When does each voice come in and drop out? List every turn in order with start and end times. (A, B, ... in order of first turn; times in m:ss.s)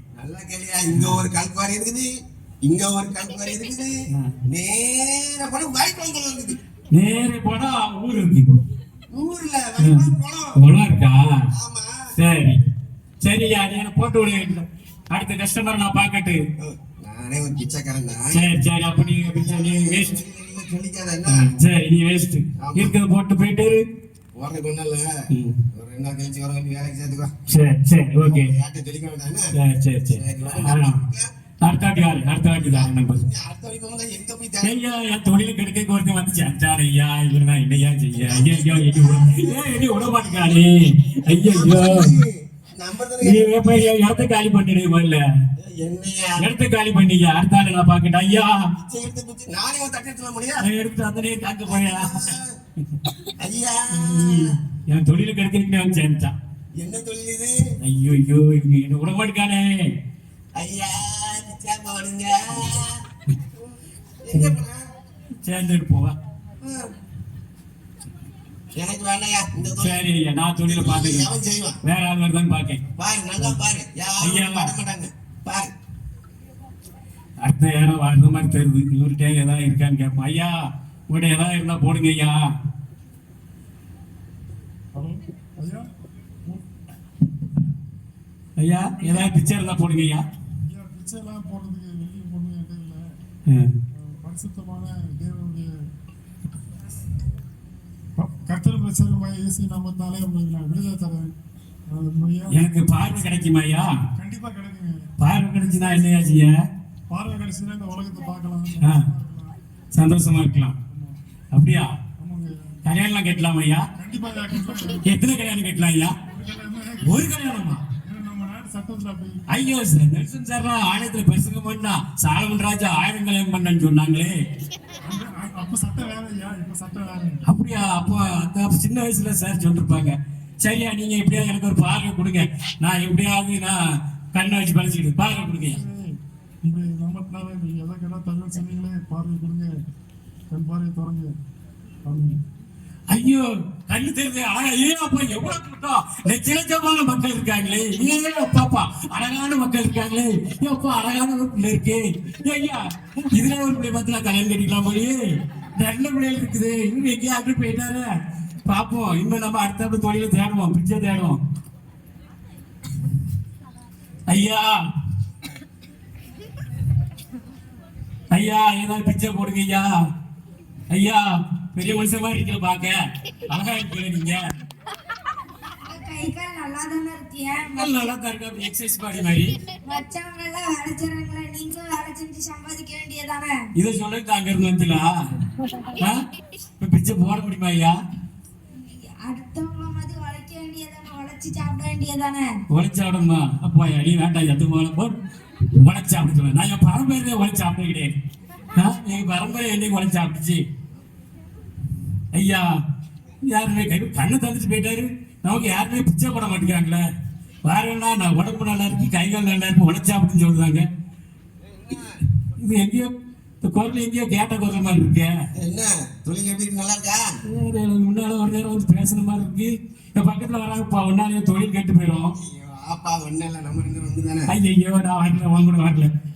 0:00.2-0:02.1 A
0:00.9-0:01.2 B
0:02.6-0:03.9 A
0:04.4-0:06.6 A
0:06.9-0:08.6 B
0:09.1-0:10.6 A
0:09.8-0:11.4 B
0:11.5-0:12.0 A
0:12.2-0:12.6 B
0:13.2-0:16.4 B
0:16.6-0:18.4 A
0:18.3-0:20.2 B
0:19.4-0:21.5 A
0:21.3-0:23.8 B
0:22.6-0:22.9 A
0:24.3-0:25.1 A
0:25.3-0:25.6 B
0:25.7-0:27.3 A
0:27.5-0:28.5 B
0:28.2-0:29.5 A
0:29.5-0:31.0 B
0:30.1-0:31.3 A
0:31.6-0:33.2 B
0:32.5-0:34.8 A
0:34.6-0:42.1 B
0:38.2-0:40.6 A
0:41.3-0:43.9 A
0:43.2-0:45.2 B
0:45.6-0:46.5 A
0:46.4-0:48.7 B
0:48.8-0:50.6 A
0:50.6-0:52.3 B
0:51.7-0:52.5 A
0:53.4-0:54.5 A
0:53.9-0:56.3 B
0:56.8-0:57.5 A
0:57.8-0:59.9 B
1:00.6-1:03.0 A
1:03.6-1:04.8 A
1:05.4-1:06.2 B
1:06.6-1:06.9 A
1:08.7-1:10.0 A
1:09.8-1:11.3 B
1:10.7-1:11.8 A
1:11.8-1:12.8 B
1:13.0-1:15.7 A
1:14.2-1:14.7 B
1:17.4-1:20.5 B
1:21.1-1:22.4 B
1:24.9-1:25.9 C
1:28.6-1:30.2 B
1:29.0-1:29.3 C
1:30.6-1:33.1 C
1:33.5-1:33.8 B
1:33.9-1:35.7 C
1:38.2-1:41.3 C
1:41.9-1:42.8 C
1:42.5-1:43.9 B
1:44.2-1:46.2 C
1:45.2-1:46.5 B
1:47.1-1:49.5 C
1:49.9-1:50.8 B
1:50.9-1:51.2 C
1:51.5-1:51.9 B
1:52.2-1:52.8 C
1:52.8-1:53.8 B
1:53.9-1:55.0 C
1:55.0-1:56.1 B
1:56.2-1:57.4 C
1:57.0-1:57.8 B
1:58.0-1:59.5 C
1:59.5-2:04.4 B
2:05.0-2:07.4 C
2:07.4-2:13.8 B
2:14.3-2:15.8 B
2:15.6-2:19.8 C
2:20.5-2:21.3 C
2:22.0-2:22.4 C
2:23.1-2:35.2 B
2:35.8-2:38.1 B
2:38.6-2:41.4 B
2:44.3-2:44.8 B
2:48.3-2:49.9 B
2:50.9-2:54.5 B
2:55.8-2:58.1 D
2:57.7-2:59.5 B
2:59.8-3:03.6 D
3:03.7-3:05.1 B
3:06.0-3:06.2 B
3:06.8-3:08.0 B
3:08.8-3:12.5 D
3:12.7-3:15.2 B
3:15.7-3:18.1 B
3:18.7-3:20.6 B
3:22.3-3:22.6 B
3:23.5-3:27.0 B
3:27.6-3:30.8 B
3:31.6-3:32.2 A
3:32.4-3:33.1 B
3:33.6-3:35.3 B
3:35.6-3:37.2 A
3:37.4-3:42.3 B
3:42.4-3:44.5 A
3:44.5-3:46.1 B